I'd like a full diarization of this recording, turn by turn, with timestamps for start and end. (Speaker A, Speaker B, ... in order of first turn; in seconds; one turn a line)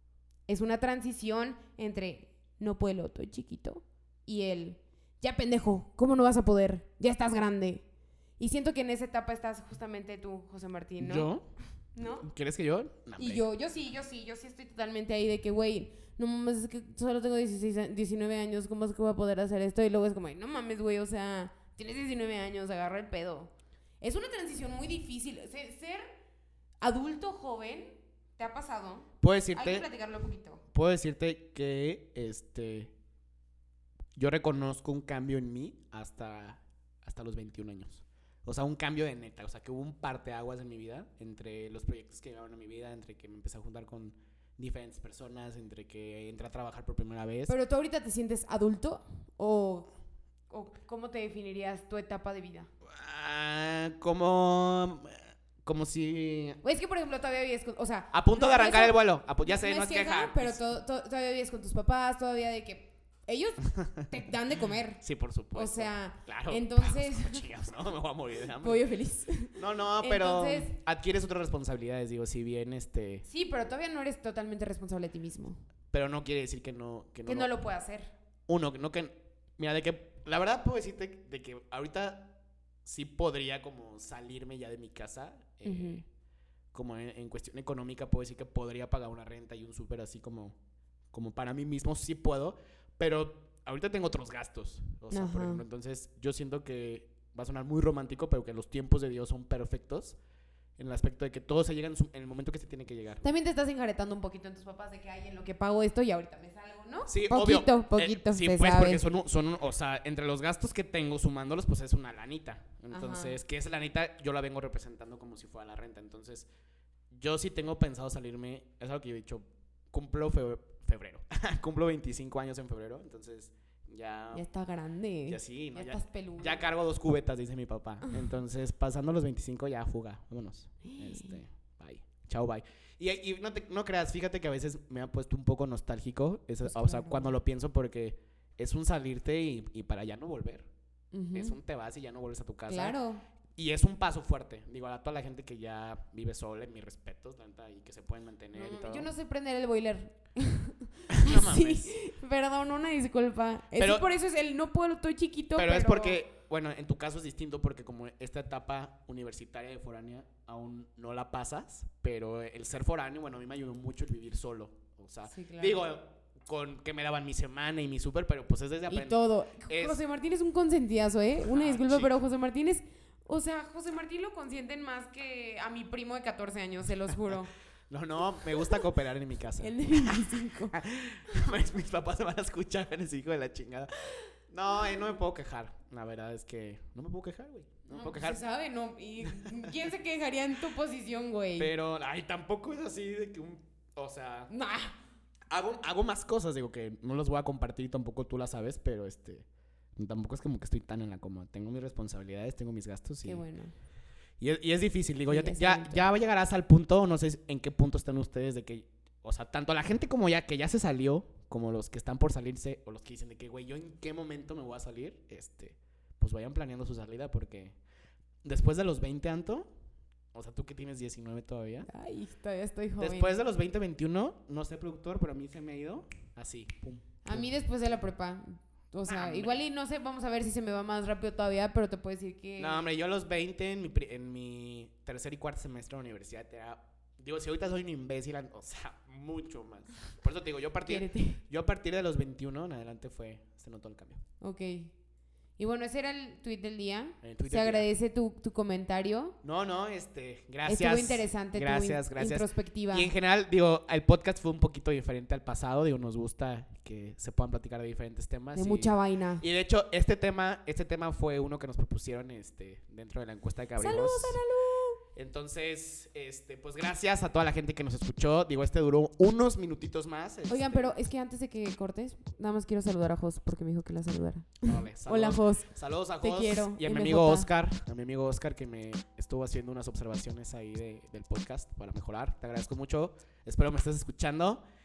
Speaker A: 0.5-7.8
Speaker A: 8.4-11.3
Speaker B: 11.0-11.4
Speaker A: 11.9-12.3
Speaker B: 12.2-13.4
Speaker A: 13.2-26.1
Speaker A: 26.8-30.6
Speaker B: 29.2-29.9
Speaker B: 30.7-32.9
Speaker B: 34.1-47.5
Speaker A: 47.5-49.9
Speaker A: 50.5-52.7
Speaker B: 52.9-56.6
Speaker A: 56.6-65.0
Speaker B: 58.1-60.6
Speaker B: 65.0-68.8
Speaker A: 65.5-67.4
Speaker A: 68.6-70.8
Speaker B: 69.5-73.2
Speaker A: 73.2-75.6
Speaker B: 75.9-77.5
Speaker A: 77.2-78.1
Speaker B: 78.5-82.3
Speaker B: 82.8-86.0
Speaker A: 85.6-86.0
Speaker B: 86.7-90.5
Speaker B: 91.1-100.2
Speaker A: 95.1-95.6
Speaker B: 100.8-103.2
Speaker A: 103.2-109.0
Speaker B: 107.1-116.5
Speaker A: 112.9-113.4
Speaker B: 117.1-124.4
Speaker A: 124.3-126.6
Speaker B: 125.3-140.7
Speaker A: 128.0-128.4
Speaker A: 130.8-131.4
Speaker A: 136.6-137.3
Speaker A: 141.1-141.6
Speaker B: 141.3-143.0
Speaker A: 142.7-143.2
Speaker B: 143.6-149.1
Speaker A: 148.5-156.2
Speaker B: 151.1-151.9
Speaker B: 153.8-154.1
Speaker B: 155.6-170.0
Speaker A: 165.3-165.8
Speaker A: 168.9-177.5
Speaker B: 171.4-172.2
Speaker B: 177.9-188.4
Speaker A: 178.6-178.8
Speaker A: 179.6-180.8
Speaker A: 187.9-191.7
Speaker B: 189.3-189.8
Speaker B: 191.6-194.5
Speaker A: 194.5-194.9
Speaker B: 195.5-203.4
Speaker A: 203.2-203.7
Speaker B: 204.4-217.8
Speaker A: 205.3-206.0
Speaker B: 218.4-219.7
Speaker B: 220.3-221.9
Speaker A: 221.9-223.3
Speaker B: 223.0-227.5
Speaker A: 227.2-232.8
Speaker B: 229.1-229.6
Speaker B: 232.6-244.2
Speaker A: 240.8-241.4
Speaker A: 244.4-244.9
Speaker A: 245.6-249.4
Speaker B: 247.2-247.9
Speaker B: 249.4-264.4
Speaker A: 250.7-253.1
Speaker A: 258.5-259.4
Speaker A: 263.8-265.0
Speaker B: 265.1-270.9
Speaker A: 270.5-275.7
Speaker B: 274.6-284.6
Speaker A: 276.2-277.5